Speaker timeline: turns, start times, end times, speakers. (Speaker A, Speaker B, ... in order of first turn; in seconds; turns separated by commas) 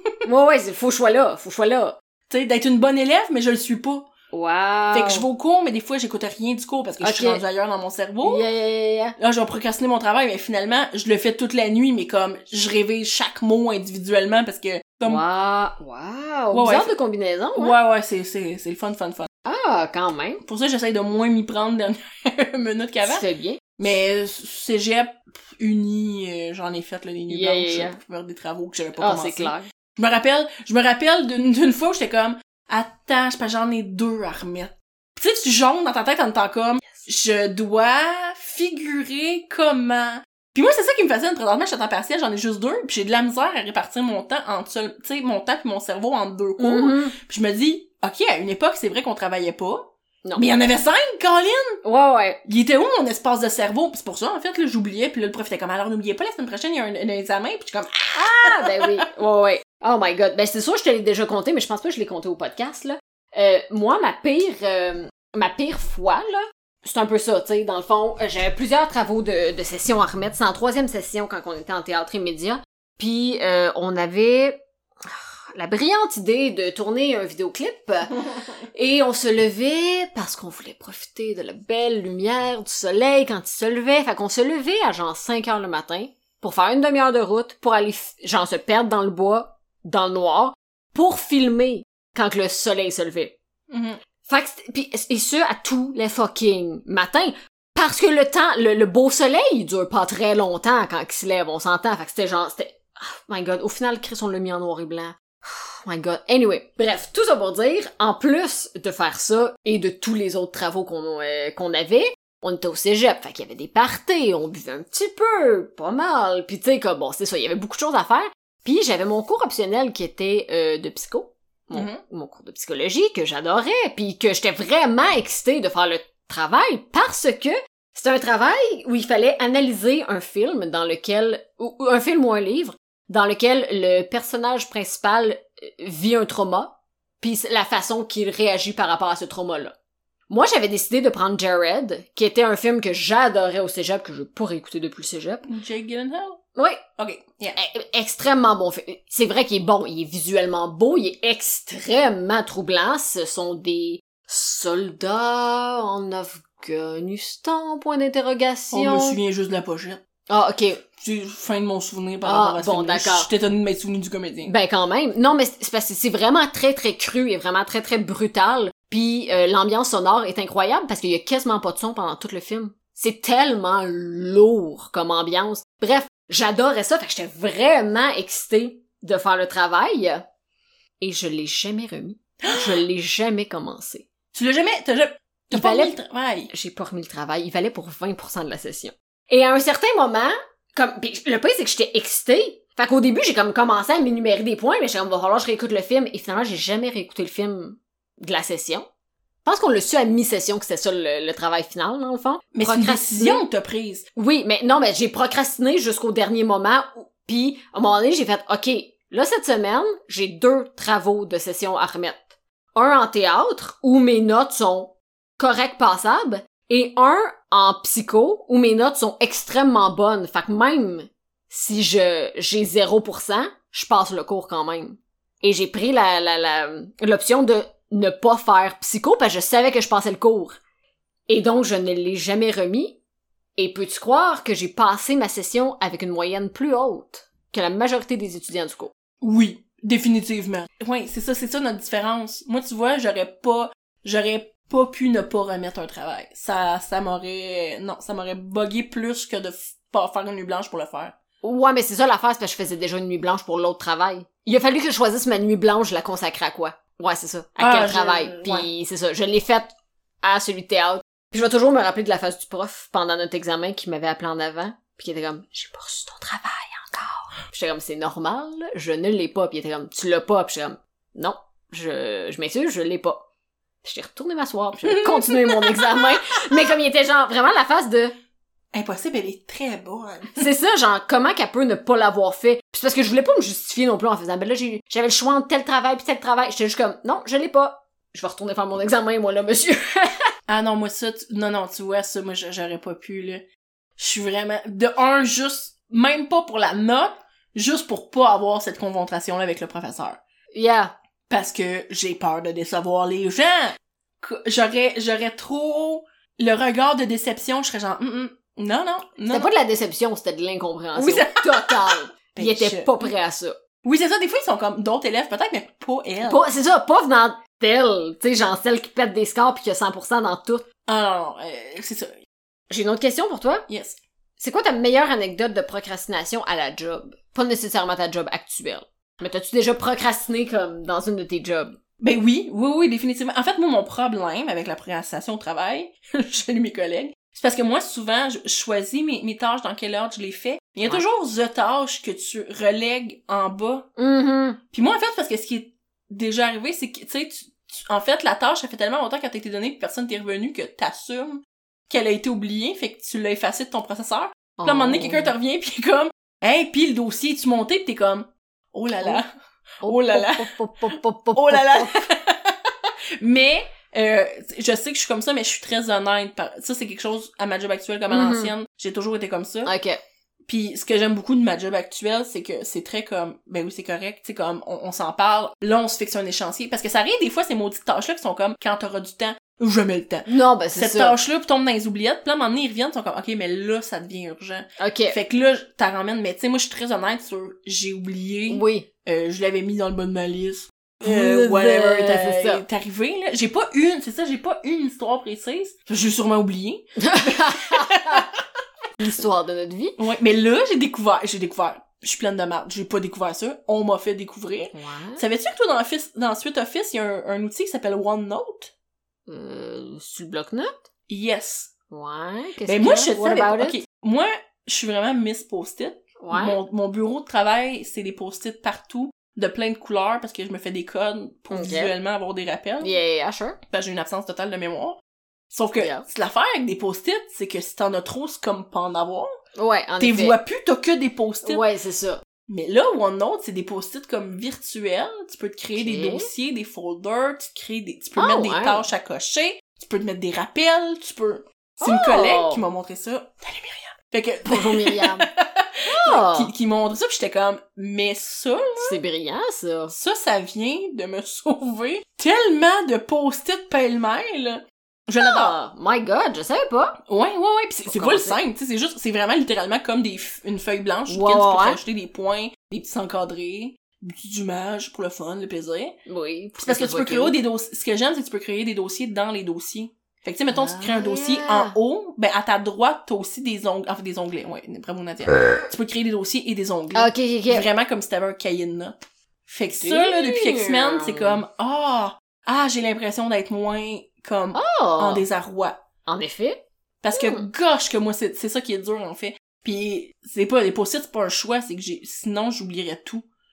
Speaker A: 0.2-1.9, Speaker B: 2.3-4.1, Speaker A: 4.3-5.3, Speaker B: 4.9-8.5, Speaker A: 7.0-7.4, Speaker A: 8.2-9.2, Speaker B: 9.2-15.2, Speaker A: 15.1-17.7, Speaker B: 16.5-16.9, Speaker B: 17.6-19.3, Speaker A: 19.4-20.4, Speaker B: 20.4-23.2, Speaker A: 23.0-23.6, Speaker B: 23.8-51.8, Speaker A: 27.3-28.0, Speaker A: 29.0-29.6, Speaker A: 46.6-47.1, Speaker A: 51.8-52.4, Speaker B: 52.5-59.0, Speaker A: 58.1-93.3, Speaker B: 93.7-94.0, Speaker A: 94.2-139.7, Speaker B: 121.7-122.0, Speaker A: 140.3-145.5, Speaker B: 145.4-146.4, Speaker A: 146.6-146.8, Speaker B: 147.0-147.6, Speaker A: 147.5-159.2, Speaker B: 158.7-160.0, Speaker A: 160.3-160.8, Speaker B: 161.0-164.5, Speaker A: 162.2-163.3, Speaker A: 164.4-180.2, Speaker A: 181.0-184.1, Speaker B: 182.4-182.8, Speaker B: 184.3-186.5, Speaker A: 185.5-185.9, Speaker A: 186.5-198.8, Speaker A: 199.4-203.4, Speaker B: 202.5-204.1, Speaker A: 204.2-230.6, Speaker A: 231.3-233.0, Speaker A: 233.6-238.9, Speaker B: 239.2-251.1, Speaker A: 251.4-273.2, Speaker B: 257.6-258.7, Speaker A: 273.8-278.1, Speaker B: 274.8-276.1, Speaker B: 278.7-280.5, Speaker A: 280.4-290.3, Speaker B: 290.5-293.4, Speaker B: 294.0-300.2, Speaker A: 300.5-300.9, Speaker B: 301.3-309.5, Speaker A: 309.3-313.6, Speaker B: 310.9-313.1, Speaker B: 313.8-316.4, Speaker A: 316.2-320.6, Speaker B: 320.9-322.2, Speaker A: 322.7-323.6, Speaker B: 323.7-324.0, Speaker A: 324.4-331.8, Speaker B: 332.0-343.9, Speaker A: 344.0-344.6, Speaker B: 344.7-359.3, Speaker A: 354.6-355.3, Speaker A: 359.8-362.1, Speaker B: 359.8-369.7, Speaker A: 368.1-368.5, Speaker A: 369.6-370.0, Speaker B: 370.4-398.4, Speaker A: 380.3-381.2, Speaker A: 384.8-385.2, Speaker A: 388.5-388.9, Speaker A: 391.0-392.6, Speaker A: 397.0-398.3, Speaker A: 399.0-400.0, Speaker B: 400.0-408.7, Speaker A: 404.7-405.2, Speaker A: 409.3-410.7, Speaker B: 411.1-411.7, Speaker A: 411.9-413.8, Speaker B: 412.6-422.9, Speaker A: 416.2-416.6, Speaker A: 421.5-421.9, Speaker A: 422.8-423.6, Speaker B: 423.7-425.0, Speaker B: 425.5-429.3, Speaker A: 425.8-426.0, Speaker A: 429.6-430.4, Speaker B: 430.0-431.6, Speaker A: 431.4-432.2, Speaker B: 432.5-449.0, Speaker A: 435.8-436.3, Speaker A: 438.1-438.8, Speaker A: 441.8-442.6, Speaker A: 444.4-445.3, Speaker A: 445.9-446.5, Speaker A: 448.8-449.9, Speaker B: 449.9-455.5, Speaker A: 455.2-457.0, Speaker B: 457.1-466.0, Speaker A: 457.9-458.4, Speaker A: 461.1-461.8, Speaker A: 466.1-467.4, Speaker B: 466.6-485.8, Speaker A: 470.5-471.7, Speaker A: 476.9-477.6, Speaker A: 479.8-481.4, Speaker A: 484.5-485.2, Speaker A: 486.1-486.6, Speaker B: 487.0-493.2, Speaker A: 487.1-487.5